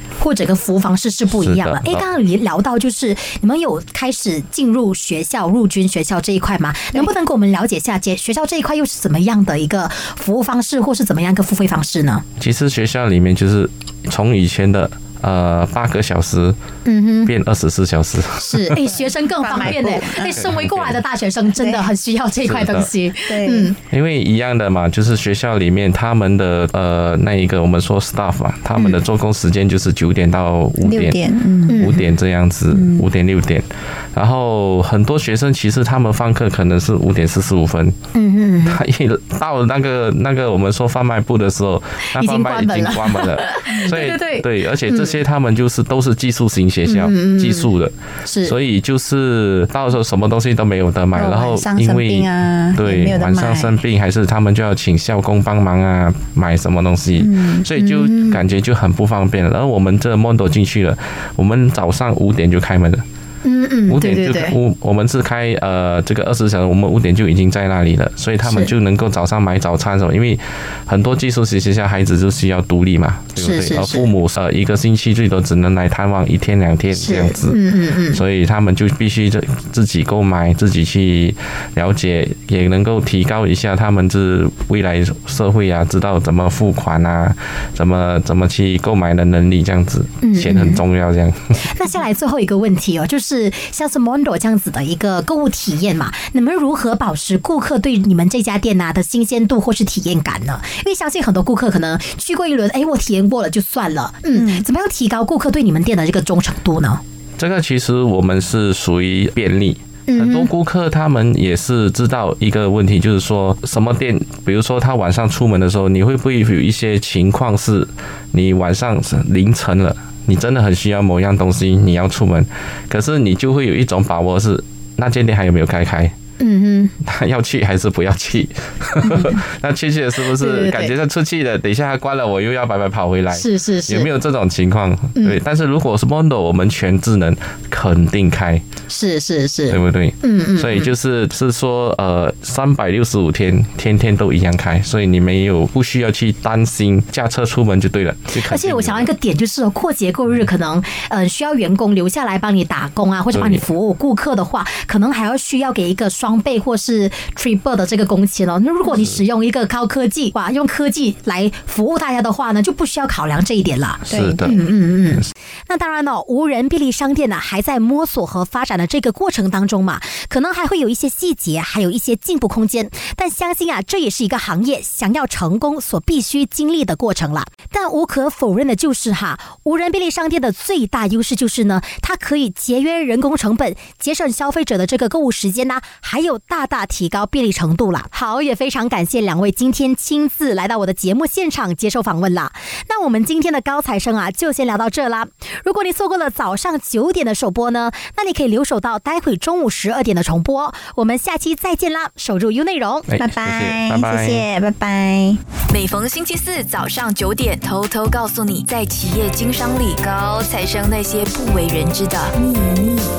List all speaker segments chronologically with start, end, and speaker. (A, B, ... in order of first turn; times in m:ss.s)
0:00.2-0:12.2 A
0:01.4-0:02.0 B
0:12.4-0:16.6 B
0:16.8-0:17.3 A
0:17.2-0:18.8 B
0:18.4-0:23.8 A
0:19.0-0:20.5 C
0:19.7-0:21.0 B
0:21.6-0:21.9 C
0:22.4-0:22.9 B
0:23.3-0:23.7 C
0:23.9-0:31.2 B
0:30.8-0:32.0 C
0:31.7-0:32.0 A
0:31.7-0:38.0 B
0:32.7-0:33.0 C
0:38.1-0:38.8 A
0:38.6-1:03.0 B
0:42.1-0:45.1 A
0:46.8-0:47.7 A
0:48.2-0:48.5 A
0:51.1-0:53.8 C
0:57.2-0:57.6 C
0:57.7-0:58.4 A
1:03.4-1:04.6 A
1:03.9-1:31.7 B
1:08.4-1:08.7 A
1:13.4-1:14.1 A
1:16.9-1:18.2 A
1:30.2-1:30.8 A
1:31.6-1:47.0 A
1:44.3-1:44.6 C
1:47.4-2:06.1 B
1:50.1-1:50.5 A
2:06.4-2:06.9 A
2:07.0-2:18.6 B
2:09.0-2:09.4 A
2:10.3-2:10.9 A
2:13.3-2:14.1 A
2:18.9-2:20.9 A
2:19.7-2:29.1 B
2:28.4-3:23.1 A
2:33.3-2:33.6 B
2:38.9-2:39.2 B
2:44.1-2:44.6 B
2:44.1-2:44.6 C
3:23.1-3:24.4 B
3:23.2-3:25.4 C
3:25.7-3:32.5 D